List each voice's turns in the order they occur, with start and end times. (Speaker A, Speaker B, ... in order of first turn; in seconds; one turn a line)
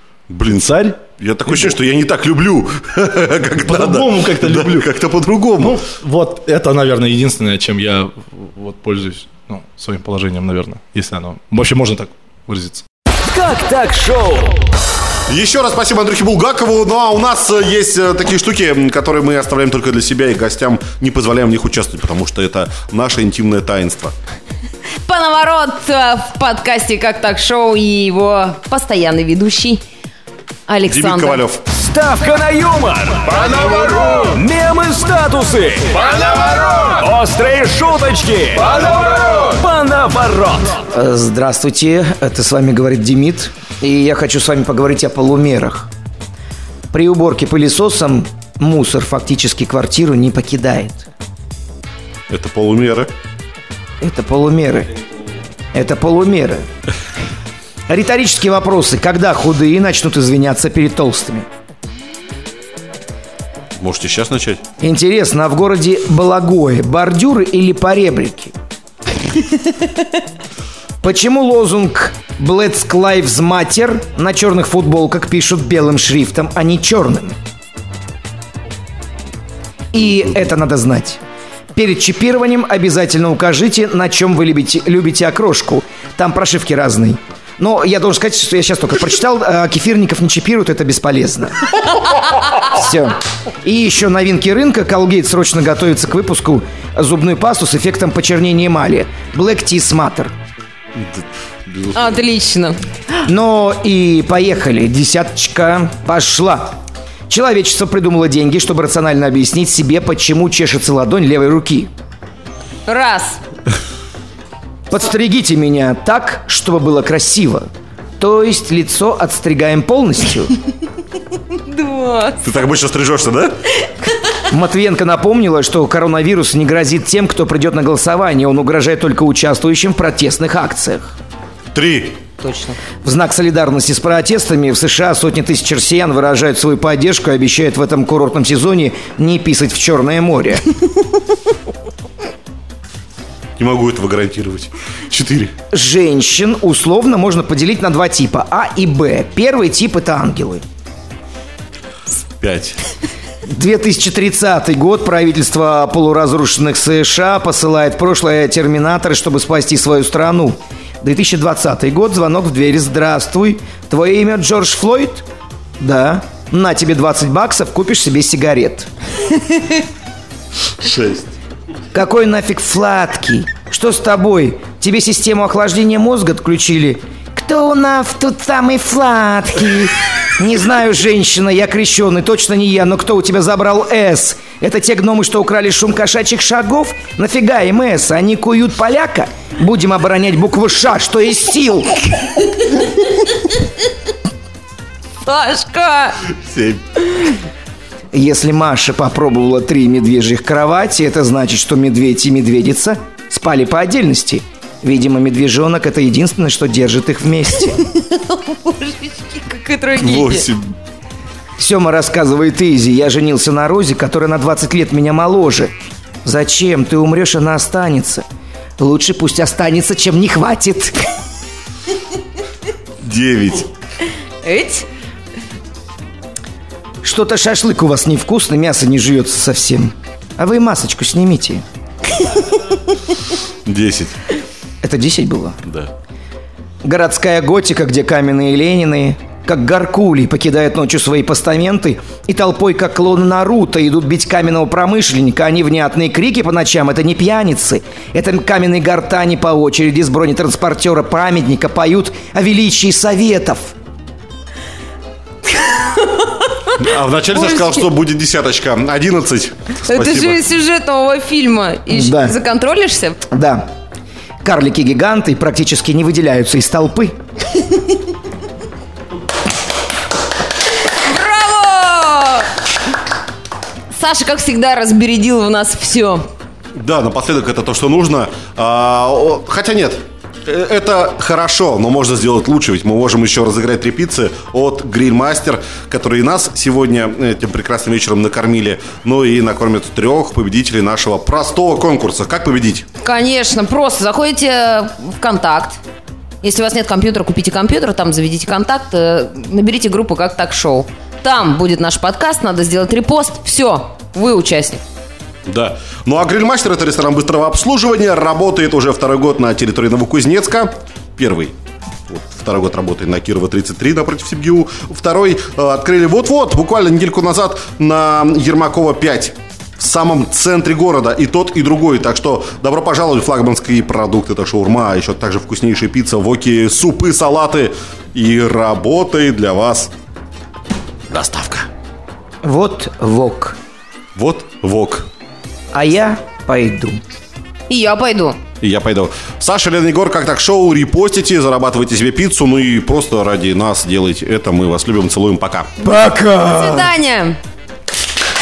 Speaker A: 0.3-5.8
Speaker B: 0.5-1.8
Speaker B: 3.6-4.9
Speaker B: 5.6-12.8
Speaker C: 13.2-14.7
Speaker A: 15.3-24.1
Speaker D: 25.0-29.8
Speaker D: 30.7-31.4
Speaker A: 30.9-31.6
Speaker C: 31.7-40.8
Speaker E: 40.9-45.9
Speaker E: 46.9-51.1
Speaker A: 52.3-53.1
Speaker E: 54.0-54.9
Speaker E: 55.7-56.7
Speaker E: 57.9-61.5
Speaker A: 63.8-64.6
Speaker E: 64.8-68.5
Speaker E: 71.0-77.4
Speaker E: 79.9-81.2
Speaker E: 81.7-91.6
Speaker E: 92.5-100.3
Speaker A: 101.0-102.1
Speaker D: 101.9-102.8
Speaker E: 103.2-111.9
Speaker D: 112.8-113.4
Speaker E: 114.9-120.5
Speaker D: 121.7-122.4
Speaker A: 122.4-123.6
Speaker E: 124.5-131.1
Speaker A: 131.7-132.2
Speaker D: 132.4-132.8
Speaker E: 132.9-140.7
Speaker A: 143.6-145.5
Speaker E: 145.7-150.6
Speaker A: 152.4-152.8
Speaker E: 153.4-165.3
Speaker E: 165.8-168.9
Speaker A: 170.8-171.3
Speaker E: 171.9-192.2
Speaker D: 195.2-196.2
Speaker A: 196.3-196.8
Speaker E: 198.1-207.8
Speaker D: 207.9-210.4
Speaker A: 210.0-210.7
Speaker E: 211.6-218.2
Speaker E: 218.8-221.1
Speaker A: 223.0-223.7
Speaker D: 224.4-224.8
Speaker E: 227.0-231.6
Speaker A: 233.6-234.2
Speaker E: 234.8-235.6
Speaker A: 235.7-235.9
Speaker E: 236.8-253.7
Speaker A: 256.8-260.4
Speaker D: 257.3-257.8
Speaker D: 259.9-263.2
Speaker E: 261.9-262.3
Speaker E: 263.3-263.7
Speaker E: 264.4-267.1
Speaker D: 271.0-272.5
Speaker D: 273.9-276.3
Speaker A: 276.7-292.8
Speaker D: 293.0-295.8
Speaker D: 296.4-304.8
Speaker A: 305.4-311.5
Speaker A: 312.1-329.9
Speaker A: 331.1-331.7
Speaker E: 332.4-333.6
Speaker A: 334.1-335.1
Speaker E: 335.7-337.0
Speaker D: 337.7-338.4
Speaker A: 338.6-345.7
Speaker E: 345.9-346.4
Speaker D: 346.4-347.4